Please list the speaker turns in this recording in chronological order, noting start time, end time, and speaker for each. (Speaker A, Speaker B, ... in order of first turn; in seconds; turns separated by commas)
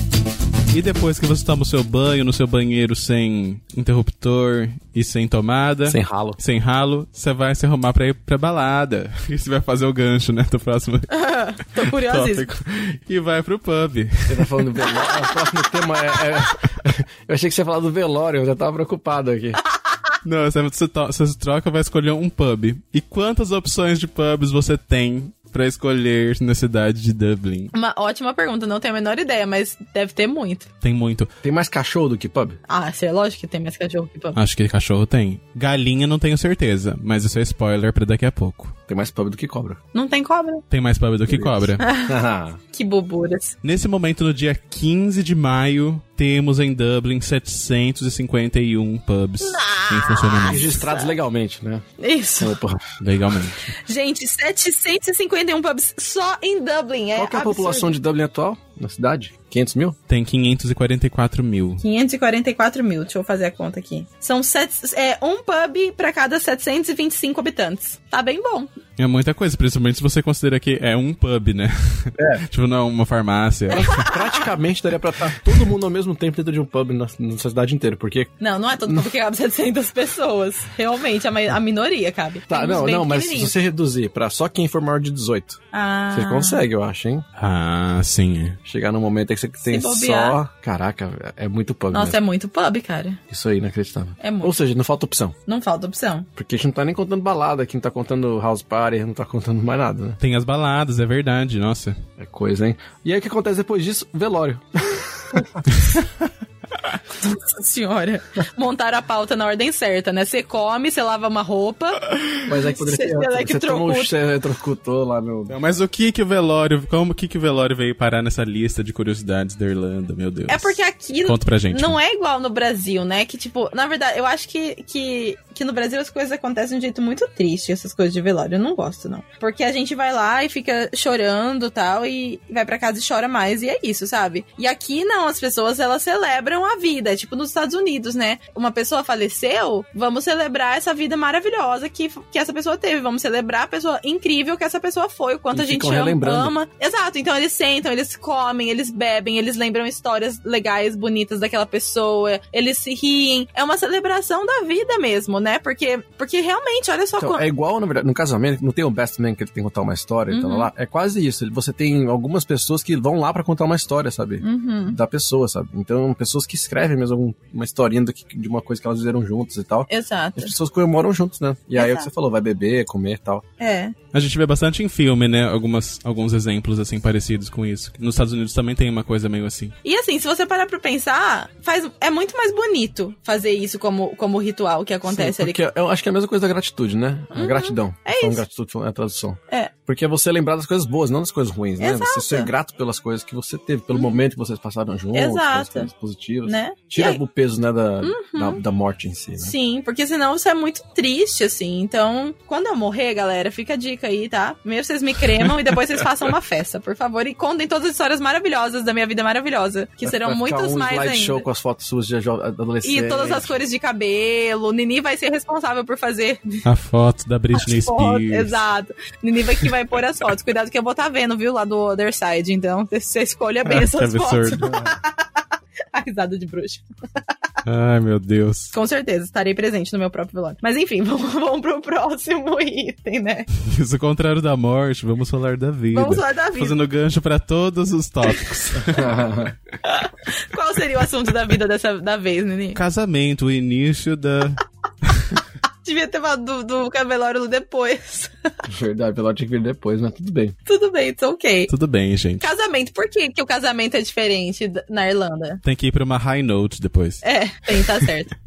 Speaker A: 0.7-11.1, Speaker B: 5.9-6.4, Speaker C: 11.1-12.5, Speaker A: 11.8-14.5, Speaker B: 14.3-19.6, Speaker A: 20.2-27.7, Speaker C: 27.7-30.7, Speaker A: 30.8-31.3, Speaker B: 31.4-32.6, Speaker C: 32.7-34.4, Speaker A: 34.4-38.7, Speaker B: 38.9-39.8, Speaker C: 39.9-40.6, Speaker A: 40.7-41.8, Speaker B: 41.3-42.6, Speaker C: 41.8-42.1, Speaker C: 42.7-43.5, Speaker A: 43.6-50.8, Speaker C: 49.4-51.1, Speaker B: 50.5-51.9, Speaker C: 52.0-52.6, Speaker B: 52.4-53.0, Speaker A: 53.0-53.7, Speaker C: 53.8-57.9, Speaker B: 57.1-60.0, Speaker A: 60.1-61.8, Speaker C: 61.8-68.7, Speaker A: 69.0-74.0, Speaker B: 72.2-72.4, Speaker B: 73.7-78.3, Speaker C: 73.7-74.4, Speaker C: 78.4-83.5, Speaker B: 78.8-79.1, Speaker B: 82.5-85.6, Speaker C: 85.7-86.6, Speaker B: 86.1-87.2, Speaker A: 87.4-88.6, Speaker B: 88.7-92.2, Speaker C: 89.6-90.4, Speaker C: 91.9-93.2, Speaker B: 93.3-95.3, Speaker C: 94.2-94.5, Speaker C: 95.5-96.3, Speaker B: 96.4-100.2, Speaker A: 100.2-102.0, Speaker B: 102.2-105.6, Speaker C: 107.2-114.1, Speaker B: 112.5-115.5, Speaker A: 115.5-122.0, Speaker C: 120.5-157.4, Speaker B: 145.5-146.6, Speaker B: 157.2-173.4, Speaker C: 160.3-160.7, Speaker C: 164.4-165.0, Speaker C: 169.9-170.5, Speaker C: 171.8-172.1, Speaker C: 173.6-173.9, Speaker A: 174.1-179.7, Speaker C: 179.8-185.6, Speaker B: 185.1-199.5, Speaker C: 187.3-188.4, Speaker C: 191.8-192.5, Speaker C: 195.1-195.9, Speaker C: 196.5-197.2, Speaker C: 198.0-198.6, Speaker C: 199.4-211.5, Speaker B: 210.0-213.6, Speaker C: 212.8-216.6, Speaker A: 216.7-218.6, Speaker C: 217.6-225.2, Speaker A: 223.7-224.7, Speaker B: 224.6-225.0, Speaker C: 225.9-226.8, Speaker A: 227.7-228.7, Speaker C: 228.7-233.5, Speaker A: 233.6-239.1, Speaker C: 235.9-236.8, Speaker B: 238.9-239.5, Speaker C: 239.8-242.8, Speaker A: 242.8-245.4, Speaker C: 245.8-248.3, Speaker B: 248.7-250.6, Speaker C: 250.7-251.7, Speaker A: 251.7-252.4, Speaker C: 252.4-255.6, Speaker A: 255.6-257.2, Speaker C: 257.2-258.3